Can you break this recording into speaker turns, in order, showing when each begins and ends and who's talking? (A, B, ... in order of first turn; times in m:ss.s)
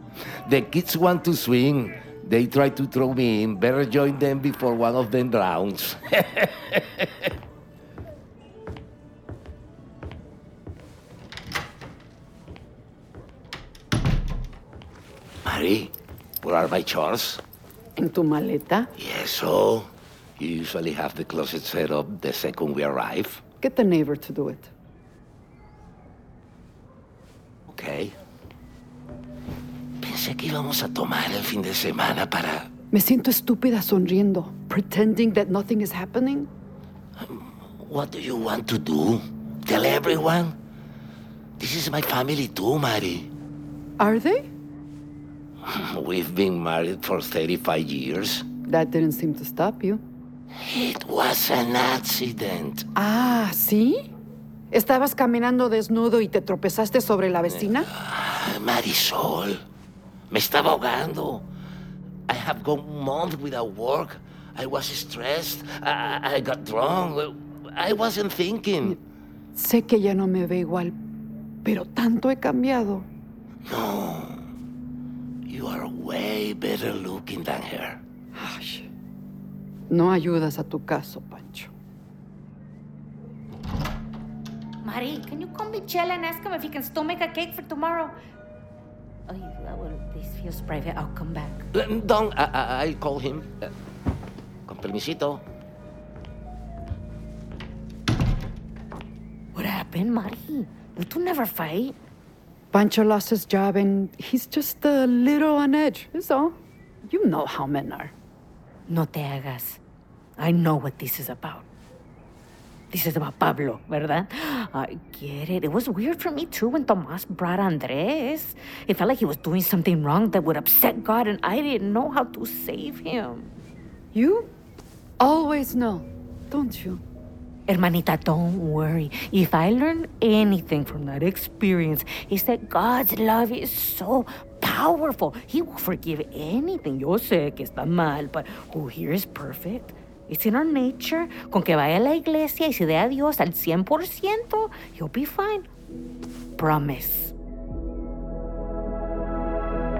0:00.4-0:06.8 A
0:15.4-0:17.4 A
0:18.0-0:18.9 B
0:19.0-0:23.4 A
0:23.6-0:24.7 B
0:27.7-0:28.1 A
0:30.0-0:32.7 A
0:32.9-0:36.5 B
0:37.2-0:40.5 A
0:41.6-0:43.3 A
0:44.0-0:44.4 B
0:45.6-0:48.4 A
0:48.6-0:50.0 B
0:50.6-0:52.8 A
0:52.9-0:54.1 B
0:54.7-0:57.9 B
0:57.6-0:59.6 A
1:00.3-1:01.4 A
1:02.3-1:09.0 A
1:09.5-1:10.9 B
1:11.6-1:13.0 B
1:13.7-1:14.4 A
1:15.5-1:18.0 A
1:18.3-1:18.9 B
1:19.9-1:21.7 B
1:24.8-1:28.1 C
1:29.3-1:31.6 C
1:31.7-1:33.7 A
1:34.7-1:35.4 A
1:39.5-1:42.0 C
1:42.7-1:48.1 B
1:48.9-1:49.8 C
1:50.4-1:51.6 C
1:52.9-2:03.5 C
2:04.1-2:04.5 B
2:05.2-2:07.0 B
2:07.7-2:25.7 C
2:26.6-2:27.3 C